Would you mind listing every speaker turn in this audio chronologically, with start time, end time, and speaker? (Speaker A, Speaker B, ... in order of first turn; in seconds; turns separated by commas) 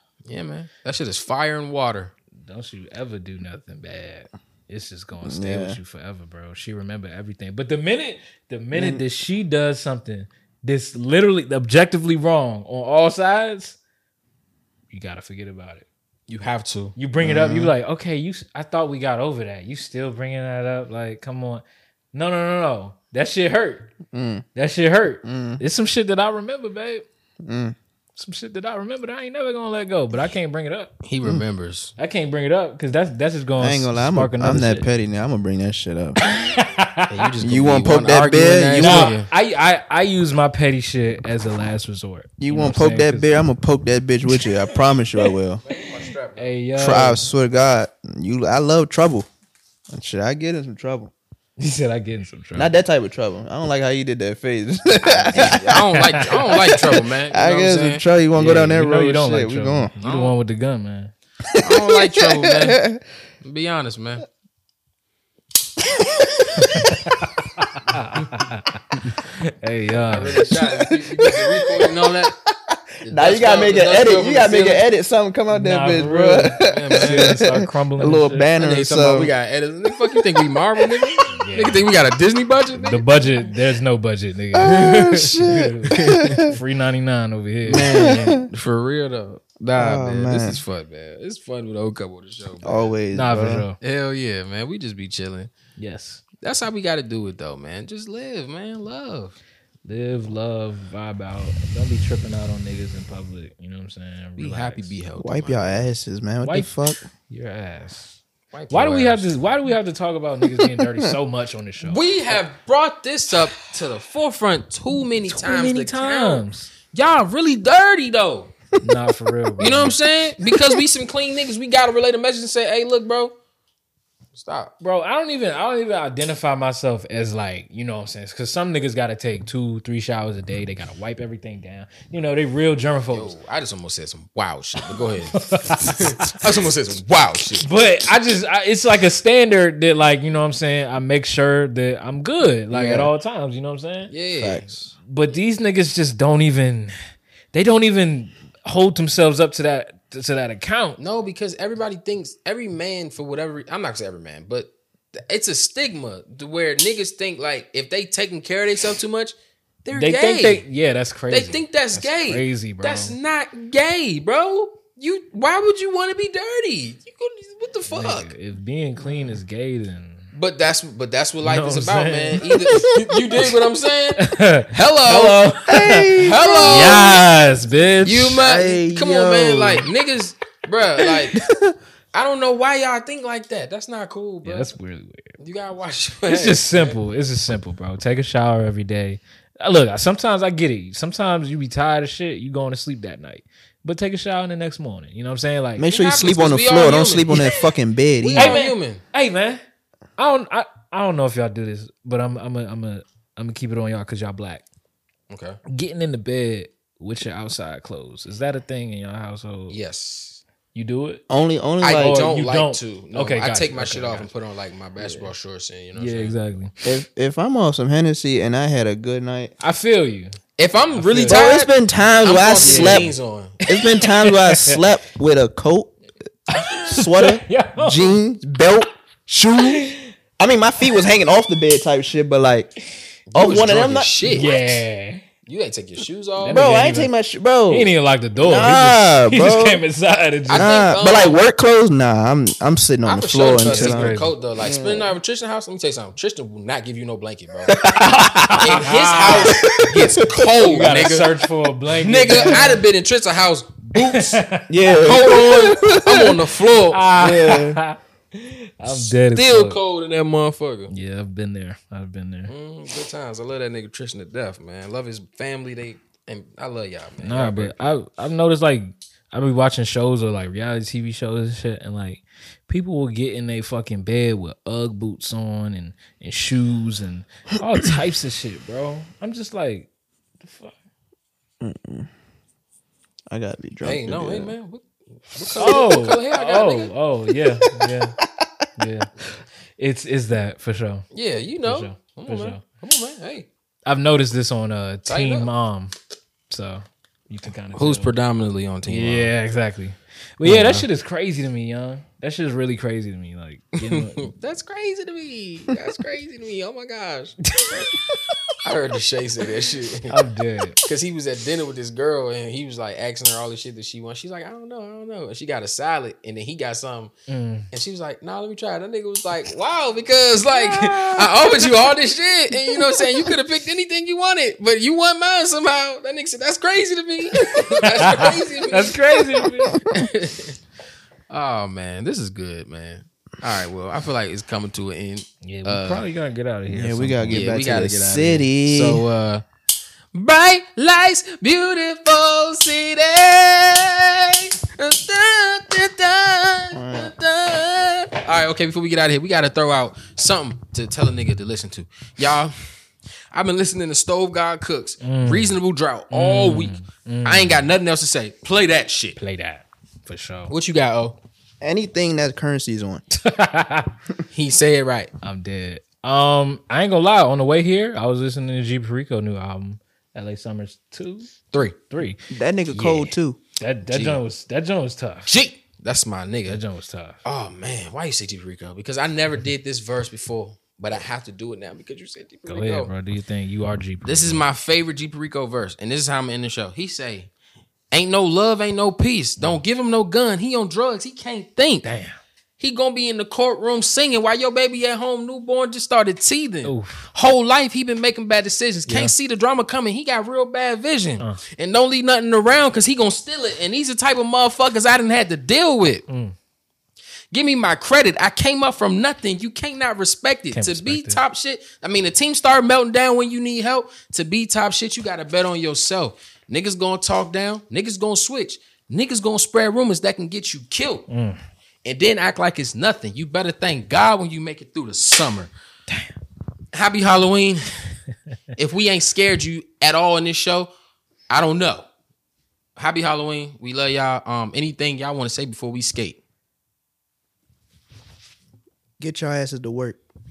Speaker A: 0.3-2.1, Speaker B: 2.4-13.8, Speaker C: 5.2-5.8, Speaker C: 8.7-9.0, Speaker B: 14.9-15.8, Speaker A: 16.3-16.9, Speaker B: 17.0-24.0, Speaker C: 17.2-17.8, Speaker C: 24.1-24.4, Speaker B: 24.6-27.1, Speaker C: 25.2-25.6, Speaker C: 27.4-27.8, Speaker B: 28.2-30.9, Speaker A: 31.0-31.9, Speaker B: 32.0-34.9, Speaker C: 33.6-36.2, Speaker B: 36.3-37.2, Speaker A: 37.1-39.3, Speaker C: 37.4-39.1, Speaker B: 38.8-43.4, Speaker C: 42.4-45.6, Speaker B: 44.3-44.7, Speaker A: 45.6-46.6, Speaker B: 46.4-47.2, Speaker C: 46.8-49.3, Speaker C: 49.9-51.1, Speaker B: 51.6-52.8, Speaker C: 52.6-59.9, Speaker A: 55.0-58.0, Speaker B: 58.3-61.1, Speaker A: 60.0-60.4, Speaker C: 61.5-63.0, Speaker A: 61.6-62.8, Speaker A: 63.4-64.2, Speaker C: 65.9-67.0, Speaker B: 66.6-67.0, Speaker B: 67.7-70.5, Speaker A: 70.1-72.3, Speaker C: 70.5-79.3, Speaker A: 73.0-74.8, Speaker B: 75.5-78.5, Speaker A: 76.7-77.3, Speaker A: 78.6-83.5, Speaker C: 80.2-81.2, Speaker B: 81.3-81.9, Speaker B: 82.7-88.3, Speaker C: 84.5-86.6, Speaker C: 87.7-88.5, Speaker A: 87.7-93.0, Speaker C: 89.8-90.6, Speaker C: 92.6-93.7, Speaker B: 93.1-93.8, Speaker A: 93.8-95.5, Speaker B: 95.8-96.2, Speaker A: 96.4-99.4, Speaker B: 99.8-104.9, Speaker A: 104.4-105.9, Speaker C: 105.2-107.0, Speaker B: 106.4-112.4, Speaker A: 108.5-109.3, Speaker C: 110.6-111.1, Speaker A: 111.8-118.5, Speaker B: 115.3-116.7, Speaker B: 118.8-120.0, Speaker A: 119.6-123.3, Speaker C: 120.4-120.7, Speaker A: 124.3-124.7, Speaker B: 124.8-133.3, Speaker A: 133.1-137.7, Speaker B: 134.9-136.4, Speaker B: 137.6-144.1, Speaker C: 142.7-143.1, Speaker A: 144.1-144.9, Speaker B: 145.0-146.9, Speaker B: 147.5-151.0, Speaker A: 151.0-160.6, Speaker B: 159.9-163.2, Speaker A: 161.3-168.3, Speaker B: 167.9-170.3, Speaker A: 170.3-175.4, Speaker B: 171.4-172.6, Speaker C: 172.5-173.0, Speaker B: 174.2-174.7, Speaker C: 175.1-177.2, Speaker B: 175.3-178.4, Speaker A: 176.2-177.2, Speaker A: 178.0-181.4, Speaker C: 178.4-179.9, Speaker C: 181.3-181.7, Speaker A: 182.1-184.8, Speaker B: 184.4-185.3, Speaker A: 185.4-187.0, Speaker B: 186.3-195.9, Speaker C: 195.8-198.6, Speaker A: 195.9-197.6, Speaker A: 198.2-199.0, Speaker B: 198.4-199.6, Speaker B: 200.2-204.6, Speaker A: 205.3-205.6, Speaker B: 205.7-209.8, Speaker A: 209.7-210.4, Speaker B: 210.7-211.2, Speaker C: 211.3-212.3, Speaker A: 211.8-216.4, Speaker B: 211.8-214.3, Speaker B: 215.0-215.3, Speaker B: 216.0-216.7, Speaker C: 216.8-219.5, Speaker B: 219.6-220.4, Speaker A: 220.6-223.5, Speaker B: 220.9-221.4, Speaker C: 221.3-223.1, Speaker B: 222.6-224.9, Speaker C: 223.7-225.9, Speaker B: 226.5-228.1, Speaker C: 226.9-232.7, Speaker B: 229.6-230.1, Speaker A: 233.3-234.8, Speaker C: 233.3-234.5, Speaker B: 234.3-235.2, Speaker A: 235.5-236.7, Speaker B: 236.4-237.1, Speaker C: 236.5-239.8, Speaker B: 237.7-240.7, Speaker A: 240.5-241.4, Speaker C: 240.5-245.2, Speaker A: 243.1-247.7, Speaker B: 243.6-244.3, Speaker C: 247.8-248.7, Speaker B: 247.8-249.8, Speaker A: 248.6-251.3, Speaker C: 249.3-250.4, Speaker B: 250.4-252.8, Speaker A: 252.0-254.4, Speaker B: 254.0-254.7, Speaker C: 254.7-256.4, Speaker A: 255.0-257.1, Speaker B: 256.9-259.8, Speaker C: 257.2-257.8, Speaker A: 258.9-260.9, Speaker B: 260.9-262.5, Speaker A: 262.5-267.9, Speaker B: 267.2-279.9, Speaker B: 280.4-280.7, Speaker C: 281.6-282.1, Speaker C: 283.3-284.5, Speaker A: 283.8-286.9, Speaker B: 285.6-288.2, Speaker C: 287.8-288.5, Speaker B: 288.8-289.3, Speaker B: 289.8-291.1, Speaker A: 291.1-293.5, Speaker B: 291.6-292.6, Speaker B: 293.9-295.9, Speaker A: 295.1-295.5, Speaker B: 296.5-298.1, Speaker A: 297.8-299.3, Speaker B: 298.9-304.3, Speaker A: 300.4-300.9, Speaker A: 303.8-307.4, Speaker B: 307.6-307.9, Speaker A: 308.6-310.1, Speaker B: 310.1-310.8, Speaker A: 310.9-317.1, Speaker B: 317.3-317.7, Speaker A: 317.7-329.0, Speaker B: 320.5-321.6, Speaker C: 327.4-327.8, Speaker B: 328.0-329.8, Speaker A: 329.8-330.6, Speaker A: 331.3-336.0, Speaker B: 335.4-337.6, Speaker C: 336.7-339.0, Speaker A: 337.3-339.4, Speaker A: 340.1-352.6, Speaker C: 346.7-347.1, Speaker A: 353.3-359.2, Speaker B: 355.0-355.6, Speaker B: 356.1-357.7, Speaker B: 359.2-360.5, Speaker A: 360.5-361.2, Speaker C: 361.6-363.0, Speaker B: 363.1-363.9, Speaker A: 364.3-365.1, Speaker B: 365.2-372.2, Speaker A: 371.5-371.8, Speaker C: 372.3-373.4, Speaker B: 372.7-375.3, Speaker A: 373.9-374.2, Speaker A: 375.3-376.6, Speaker B: 376.5-377.2, Speaker A: 377.2-382.9, Speaker B: 382.5-384.4, Speaker A: 384.1-387.3, Speaker A: 387.9-391.9, Speaker B: 391.8-392.2, Speaker A: 392.6-406.1, Speaker B: 396.6-397.1, Speaker B: 398.9-399.1, Speaker B: 406.1-406.4, Speaker A: 407.3-421.1, Speaker B: 410.5-411.2, Speaker B: 421.1-421.4, Speaker A: 421.8-425.5, Speaker A: 426.7-427.7, Speaker A: 428.6-430.7, Speaker A: 431.3-431.9, Speaker A: 432.8-436.2, Speaker C: 439.0-440.0